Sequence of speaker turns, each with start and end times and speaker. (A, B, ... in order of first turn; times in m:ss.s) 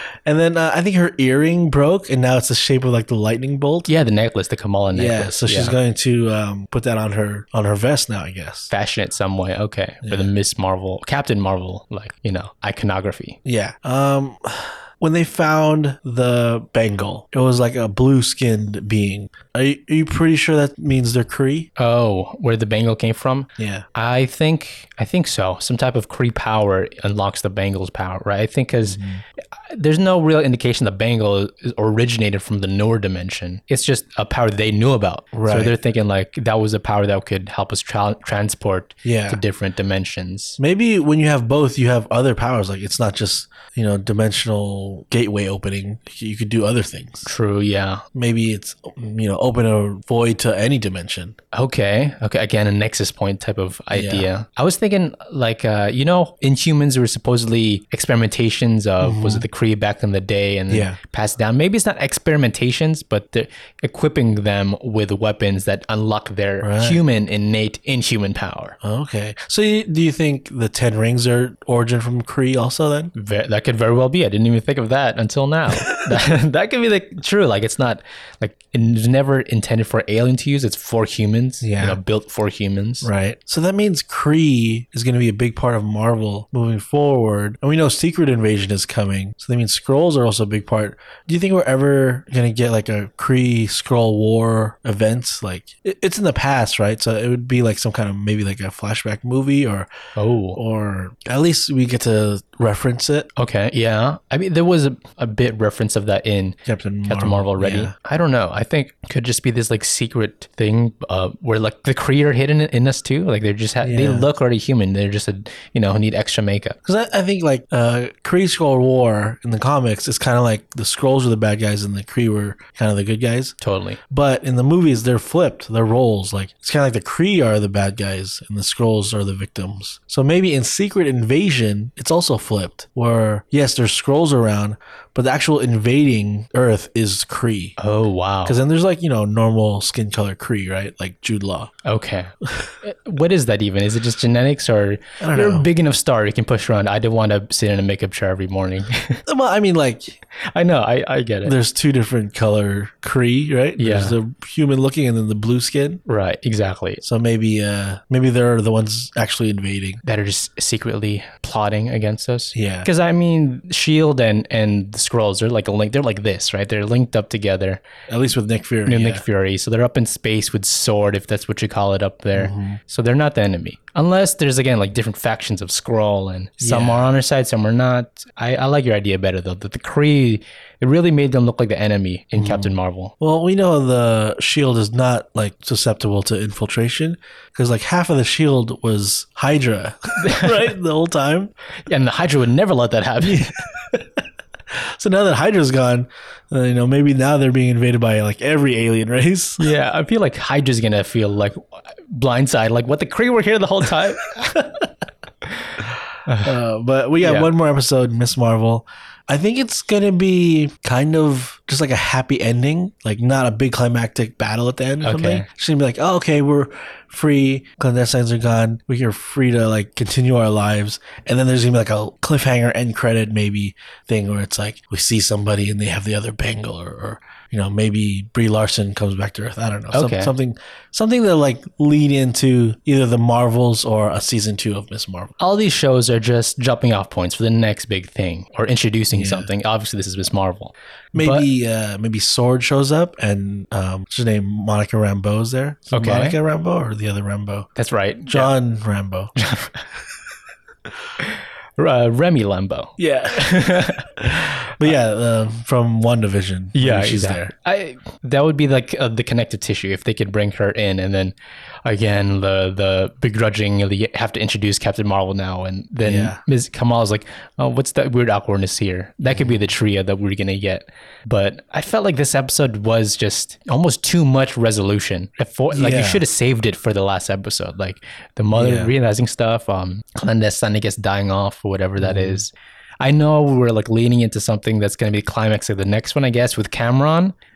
0:00.2-0:03.9 A
0:03.9-0:05.8 B
0:04.9-0:08.7 A
0:08.7-0:13.4 B
0:10.0-0:10.3 A
0:13.4-0:21.7 A
0:21.8-0:29.0 B
0:23.6-0:23.8 A
0:28.9-0:29.2 A
0:29.7-0:40.6 B
0:35.3-0:35.7 A
0:39.0-0:39.4 A
0:40.6-0:47.3 A
0:47.2-0:48.0 B
0:48.1-0:51.4 A
0:51.5-1:08.8 B
0:53.9-0:54.3 A
0:59.0-0:59.4 A
1:00.7-1:01.0 A
1:06.6-1:07.0 A
1:08.8-1:13.1 A
1:13.1-1:23.1 B
1:15.9-1:16.1 A
1:21.6-1:22.0 A
1:23.0-1:39.9 A
1:40.2-1:40.6 B
1:40.5-1:43.3 A
1:43.4-1:56.8 B
1:46.6-1:47.9 A
1:53.8-1:54.3 A
1:56.8-2:03.6 A
2:03.6-2:04.0 B
2:04.1-2:17.8 A
2:17.8-2:18.6 B
2:18.4-2:21.7 A
2:21.8-2:22.3 B
2:22.8-2:29.2 B
2:25.2-2:25.6 A
2:29.2-2:30.2 A
2:30.5-2:31.5 B
2:31.4-2:36.0 A
2:33.8-2:34.2 B
2:36.0-2:37.0 B
2:37.0-2:40.0 A
2:40.0-2:47.8 B
2:42.5-2:42.9 A
2:48.1-2:49.2 A
2:48.8-3:03.1 B
2:52.4-2:52.8 A
2:56.6-2:57.1 A
3:02.4-3:11.5 A
3:10.2-3:10.7 B
3:11.8-3:13.6 B
3:13.2-3:14.2 A
3:14.7-3:19.6 A
3:19.6-3:24.8 B
3:25.5-3:26.5 B
3:26.4-3:55.3 A
3:27.2-3:27.5 B
3:35.0-3:35.5 B
3:49.9-3:50.3 B
3:55.4-4:01.4 B
3:59.1-3:59.5 A
4:01.1-4:07.7 A
4:05.9-4:06.4 B
4:07.8-4:08.5 B
4:08.3-4:09.3 A
4:09.4-4:09.8 B
4:11.2-4:14.9 B
4:13.0-4:17.5 A
4:16.7-4:21.3 B
4:21.8-4:47.3 B
4:26.0-4:26.4 A
4:29.3-4:29.6 A
4:35.7-4:36.2 A
4:38.5-4:38.9 A
4:42.0-4:42.4 A